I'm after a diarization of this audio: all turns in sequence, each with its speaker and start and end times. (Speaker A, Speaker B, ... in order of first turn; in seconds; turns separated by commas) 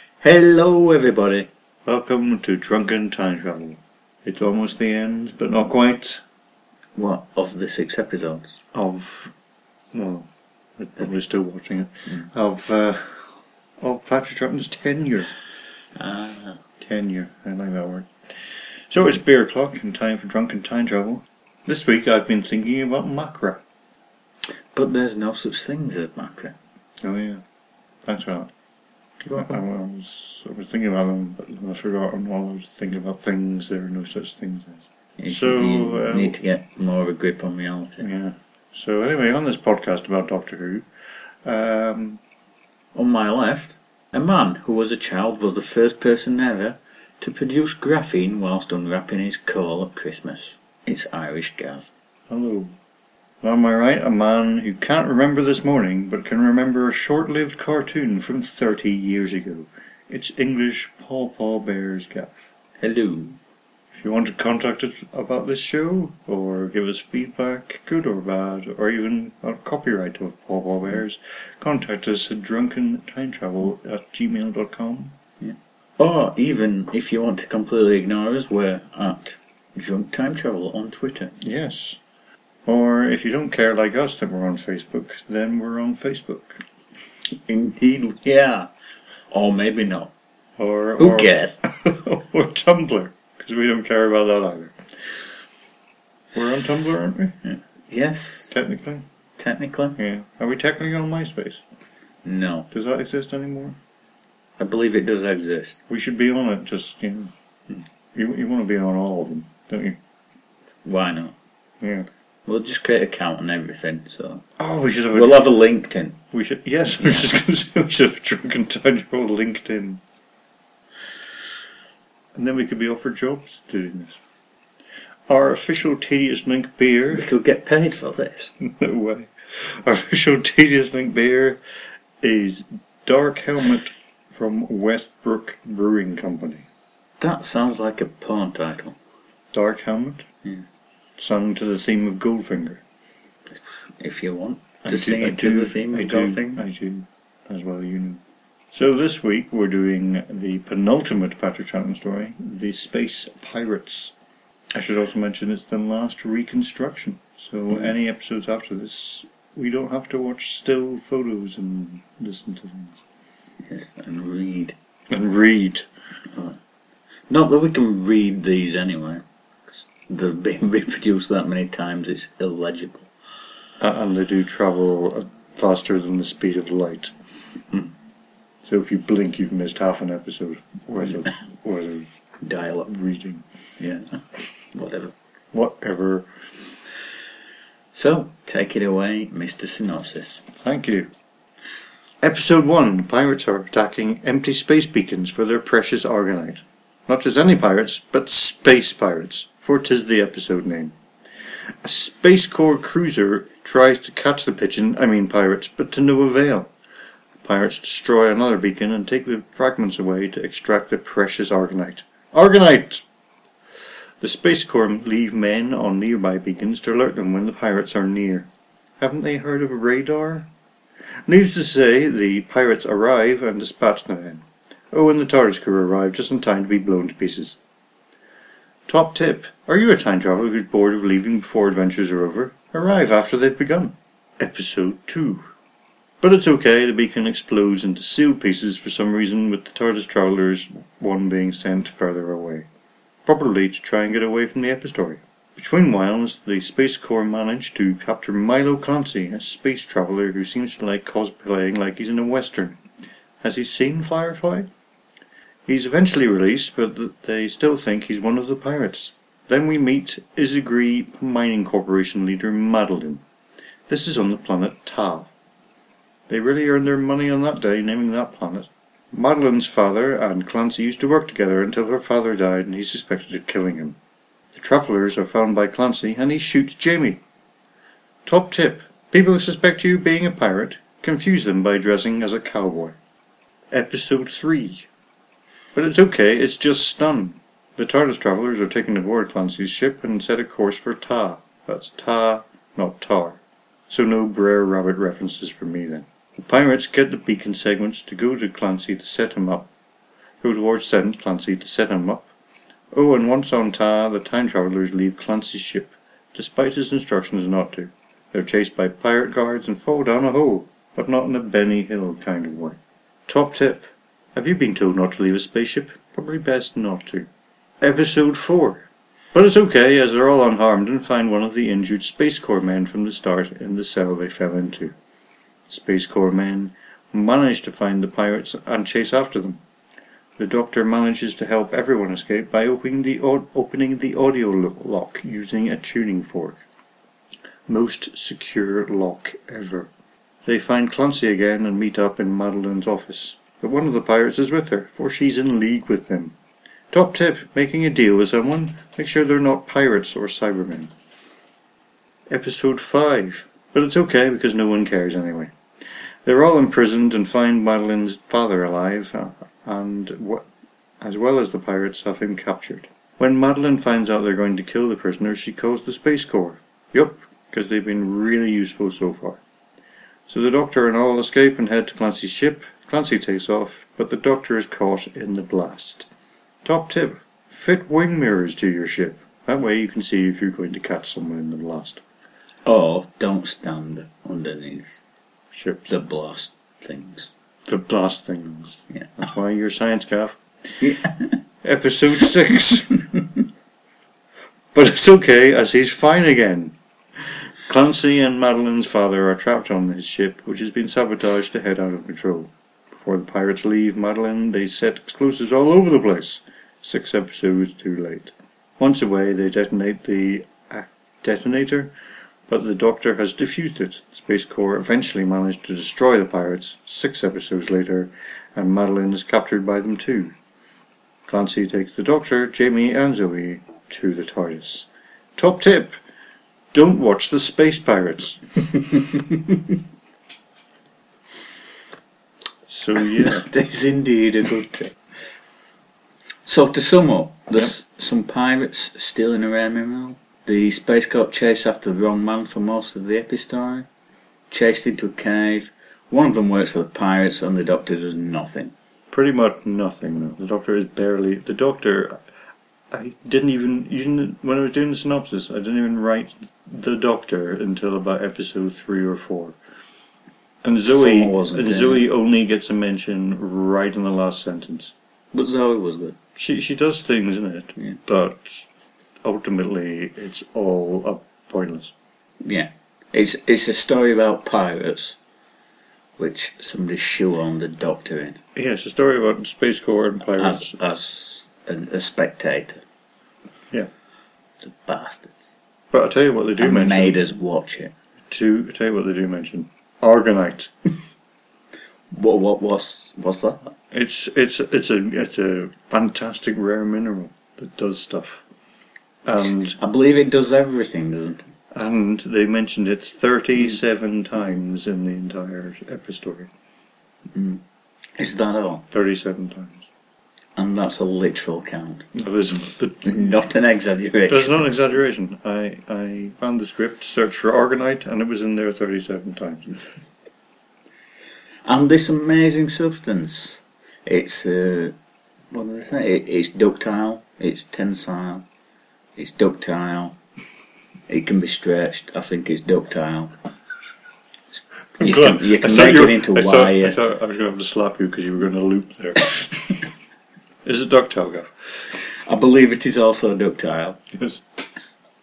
Speaker A: 0.2-1.5, Speaker B: 1.9-6.2, Speaker A: 7.0-8.6, Speaker B: 8.7-9.3, Speaker B: 9.9-15.3, Speaker A: 16.0-16.6, Speaker B: 16.8-18.1, Speaker B: 18.9-23.6, Speaker A: 24.7-26.6, Speaker B: 27.0-27.4, Speaker B: 28.1-28.5, Speaker A: 29.2-29.6, Speaker B: 29.3-36.4, Speaker A: 35.2-38.0, Speaker B: 38.0-40.9, Speaker B: 41.5-42.2, Speaker A: 42.9-51.9, Speaker B: 52.3-52.8, Speaker B: 53.4-62.3, Speaker A: 62.8-63.4, Speaker B: 63.9-75.1, Speaker A: 75.4-81.3, Speaker B: 81.4-82.0, Speaker B: 82.7-86.6, Speaker A: 87.5-88.7, Speaker A: 89.3-90.1, Speaker B: 90.6-94.7, Speaker A: 91.0-91.6, Speaker B: 96.3-97.3, Speaker A: 97.5-98.6, Speaker B: 98.5-99.0, Speaker A: 99.4-100.0, Speaker B: 100.0-101.6, Speaker A: 102.2-102.7, Speaker B: 102.7-103.8, Speaker A: 104.6-105.8, Speaker B: 105.9-107.3, Speaker B: 108.1-110.0, Speaker A: 110.8-111.3, Speaker B: 111.8-112.1, Speaker A: 112.5-114.4, Speaker B: 114.6-115.5, Speaker A: 115.1-116.2, Speaker B: 116.3-120.0, Speaker B: 122.3-124.2, Speaker B: 125.3-127.3, Speaker A: 127.1-128.5, Speaker B: 128.6-131.6, Speaker B: 132.2-136.7, Speaker A: 137.2-139.0, Speaker B: 139.5-140.3, Speaker B: 141.2-142.8, Speaker A: 143.5-146.6, Speaker B: 144.8-148.2, Speaker B: 148.7-154.1, Speaker B: 154.7-163.0, Speaker A: 163.7-164.8, Speaker B: 165.1-165.9, Speaker A: 166.3-166.6, Speaker A: 167.3-169.2, Speaker A: 169.8-173.1, Speaker B: 173.8-177.1, Speaker B: 178.6-183.4, Speaker A: 183.8-185.1, Speaker B: 185.5-186.3, Speaker A: 187.9-190.5, Speaker B: 190.6-191.1, Speaker B: 192.2-200.9, Speaker B: 201.8-206.7, Speaker B: 207.4-213.1, Speaker B: 214.2-218.5, Speaker B: 219.0-220.5, Speaker B: 221.3-227.6, Speaker B: 228.9-235.5, Speaker B: 236.2-242.7, Speaker B: 243.2-252.8, Speaker B: 253.4-254.7, Speaker B: 255.7-263.2, Speaker B: 263.9-265.3, Speaker B: 266.3-274.0, Speaker B: 274.5-277.2, Speaker B: 278.2-283.0, Speaker B: 283.7-284.9, Speaker B: 285.7-299.7, Speaker B: 300.4-302.3, Speaker B: 302.9-317.3, Speaker B: 317.8-324.9, Speaker B: 325.7-329.6, Speaker B: 330.4-336.6, Speaker B: 337.7-339.9, Speaker B: 340.4-346.4, Speaker B: 346.9-350.9, Speaker B: 352.3-355.5, Speaker B: 356.2-360.4, Speaker B: 361.0-369.4, Speaker B: 370.3-376.1, Speaker B: 376.6-382.0, Speaker A: 382.6-385.0, Speaker B: 385.5-385.9, Speaker A: 385.9-387.3, Speaker B: 387.7-390.8, Speaker A: 390.8-391.4, Speaker B: 391.6-393.0, Speaker B: 394.7-396.8, Speaker B: 397.6-411.9, Speaker B: 412.5-420.3, Speaker B: 421.3-426.0, Speaker B: 426.7-428.4, Speaker A: 429.1-429.6, Speaker B: 432.7-433.4, Speaker A: 433.2-434.9, Speaker A: 436.4-443.9, Speaker A: 444.5-448.7, Speaker B: 449.1-452.2, Speaker B: 452.9-459.6, Speaker B: 460.6-464.9, Speaker A: 460.9-462.0, Speaker A: 465.3-466.2, Speaker B: 466.4-468.7, Speaker B: 469.2-471.9, Speaker A: 472.4-475.2, Speaker A: 476.2-478.4, Speaker B: 478.6-480.7, Speaker A: 480.4-482.8, Speaker A: 484.6-485.6, Speaker B: 485.9-487.2, Speaker A: 486.6-487.9, Speaker B: 488.3-490.7, Speaker A: 492.1-493.6, Speaker B: 493.9-498.4, Speaker B: 499.2-499.8, Speaker A: 499.8-501.5, Speaker B: 501.7-506.5, Speaker A: 507.3-507.6, Speaker A: 508.2-508.8, Speaker B: 508.9-509.9, Speaker A: 510.6-512.1, Speaker B: 512.1-513.3, Speaker A: 513.0-514.6, Speaker B: 514.3-519.8, Speaker A: 521.6-525.0, Speaker A: 525.5-528.5, Speaker A: 529.1-530.2, Speaker A: 531.1-533.3, Speaker A: 535.0-537.0, Speaker B: 535.0-539.9, Speaker B: 540.6-541.5, Speaker A: 542.0-544.0, Speaker B: 544.1-544.4